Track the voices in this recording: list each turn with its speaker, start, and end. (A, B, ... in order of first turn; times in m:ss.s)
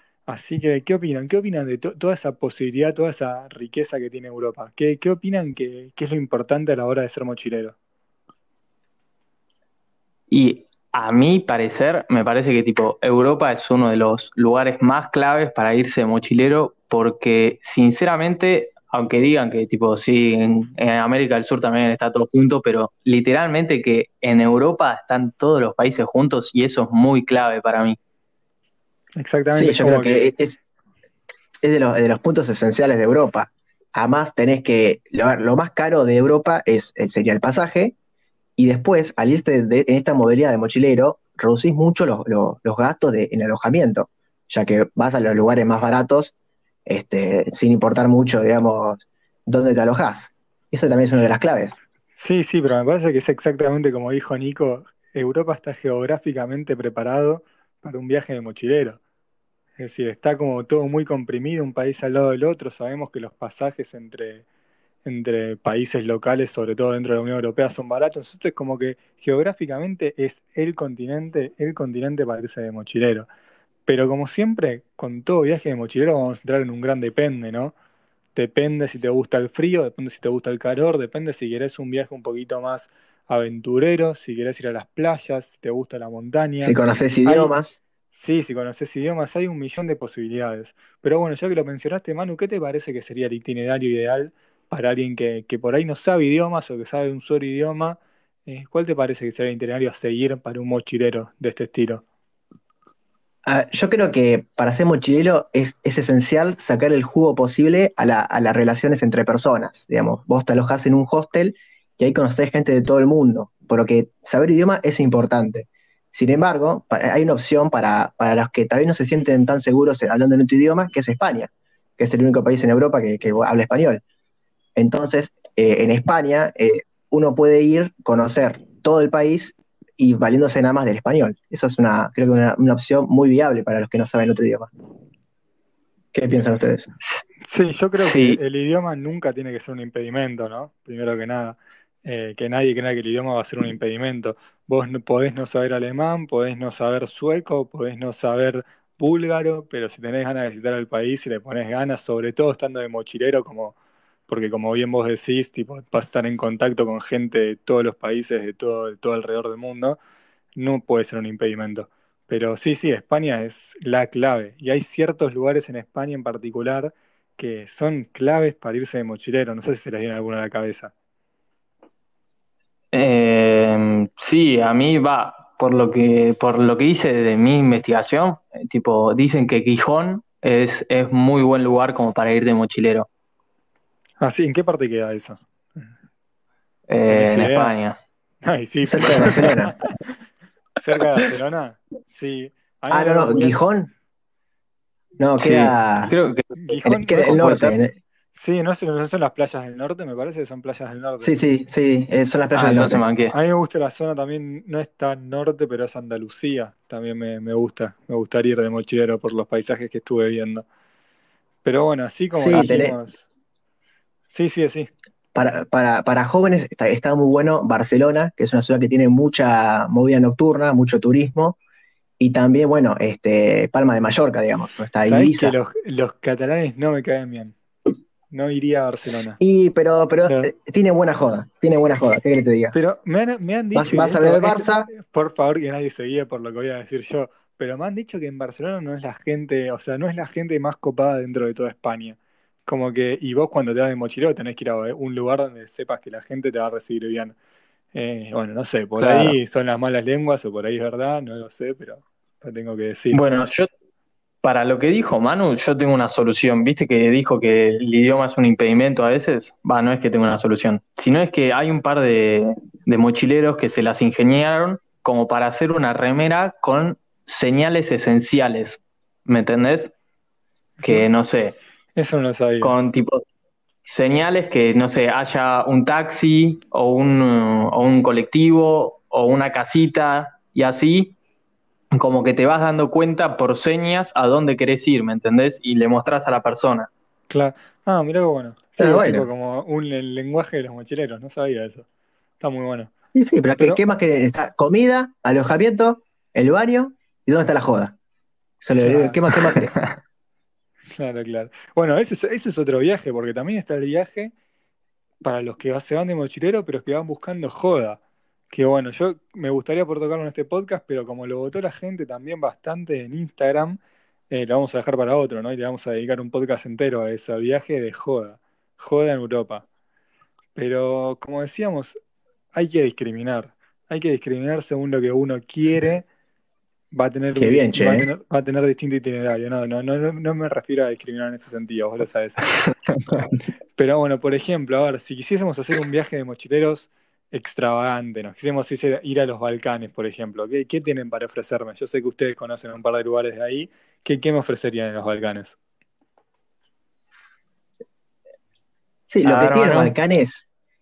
0:00.3-0:07.8 A
0:10.3-0:28.0 B
0:29.2-0:30.3 A
0:29.5-0:30.6 C
0:31.6-0:38.0 C
0:38.6-0:46.3 C
0:46.9-0:51.8 C
0:52.2-0:59.0 A
0:59.8-1:04.4 A
1:05.0-1:13.3 A
1:13.9-1:17.7 A
1:18.4-1:27.5 A
1:26.6-1:27.8 C
1:28.1-1:42.0 A
1:43.4-2:04.0 C
2:04.8-2:14.7 C
2:16.1-2:16.9 C
2:17.4-2:33.8 A
2:17.9-2:18.4 B
2:34.3-2:40.0 A
2:40.6-2:50.9 A
2:52.9-3:03.1 B
3:04.2-3:05.9 A
3:06.9-3:08.0 B
3:07.1-3:07.7 A
3:08.4-3:09.9 A
3:08.9-3:09.7 C
3:10.8-3:13.6 A
3:12.9-3:13.9 C
3:15.2-3:16.1 C
3:15.4-3:16.6 B
3:16.6-3:17.8 A
3:16.8-3:18.0 C
3:17.3-3:17.6 B
3:18.4-3:21.3 A
3:21.2-3:23.0 C
3:22.5-3:23.3 B
3:23.3-3:30.6 A
3:31.6-3:33.2 A
3:32.3-3:33.0 C
3:34.3-3:34.9 A
3:35.4-3:41.6 C
3:42.2-3:45.5 C
3:45.0-3:47.6 A
3:48.3-3:49.4 A
3:49.4-3:52.7 C
3:50.2-3:50.5 A
3:52.7-4:07.4 A
3:53.8-3:54.9 C
4:07.9-4:13.2 A
4:09.0-4:09.4 B
4:13.1-4:13.7 B
4:14.4-4:29.9 B
4:30.8-4:31.1 A
4:30.9-4:31.6 B
4:31.9-4:32.8 A
4:32.6-4:33.2 B
4:33.9-4:41.2 B
4:41.9-4:46.9 B
4:47.3-4:51.9 A
4:48.8-4:49.3 C
4:52.4-4:52.9 A
4:53.2-4:57.9 C
4:58.6-4:59.7 C
4:58.8-4:59.2 A
5:00.9-5:04.3 A
5:05.2-5:08.0 A
5:08.5-5:13.8 A
5:14.3-5:19.7 A
5:20.6-5:22.0 A
5:22.5-5:26.1 A
5:26.9-5:32.5 A
5:27.4-5:28.1 C
5:33.8-5:45.6 A
5:49.1-5:50.5 C
5:49.2-5:49.9 B